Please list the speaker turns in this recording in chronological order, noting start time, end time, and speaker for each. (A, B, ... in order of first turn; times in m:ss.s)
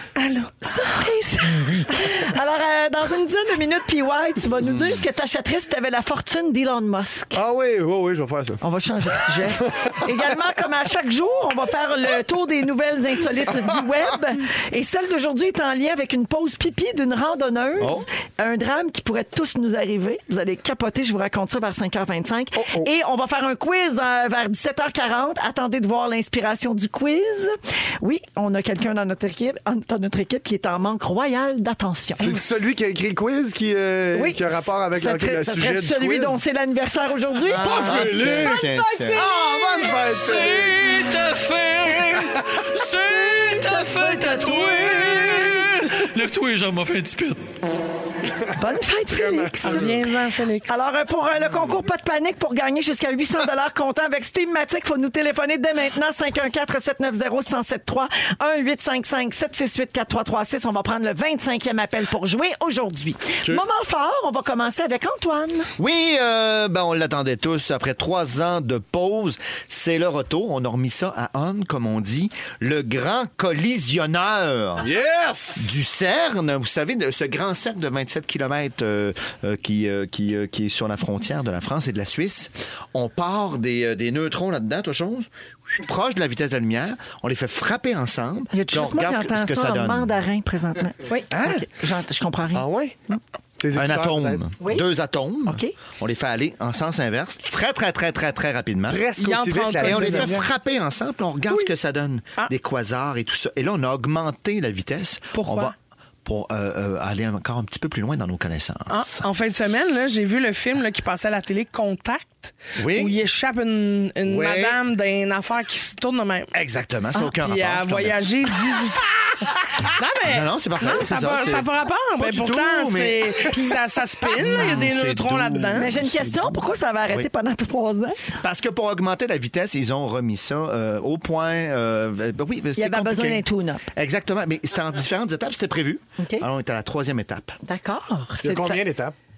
0:00.2-0:01.1 A
0:00.6-0:07.4 B
0:04.6-0:05.0 C
0:07.3-0:08.6 D
0:08.6-0:32.4 B
0:09.5-0:09.9 D
0:17.8-0:18.0 C
0:32.2-0:36.4 D
0:34.1-0:39.2 B
0:37.5-0:40.8 D
0:37.5-0:39.3 C
0:40.0-0:47.4 E
0:43.8-0:45.3 B
0:48.5-0:49.9 B
0:49.1-0:50.0 D
0:49.6-0:50.7 A
0:50.7-1:05.7 B
0:51.5-0:51.7 D
1:05.8-1:14.9 C
1:14.8-1:15.7 D
1:15.6-1:30.1 C
1:28.5-1:33.2 B
1:31.3-1:31.6 D
1:32.5-1:33.0 D
1:33.6-1:34.4 D
1:33.7-1:39.0 C
1:34.6-1:34.8 B
1:35.5-1:35.7 B
1:38.9-1:40.5 D
1:39.2-1:40.4 A
1:39.8-1:49.2 C
1:45.3-1:45.7 A
1:48.9-1:56.5 A
1:52.8-1:53.2 C
1:54.2-1:54.8 C
1:56.5-1:58.5 C
1:57.4-2:05.9 A
2:00.2-2:07.3 C
2:05.8-2:08.2 B
2:08.4-2:17.6 C
2:12.8-2:13.8 B
2:16.2-2:16.4 B
2:17.6-2:18.8 B
2:18.4-2:19.1 D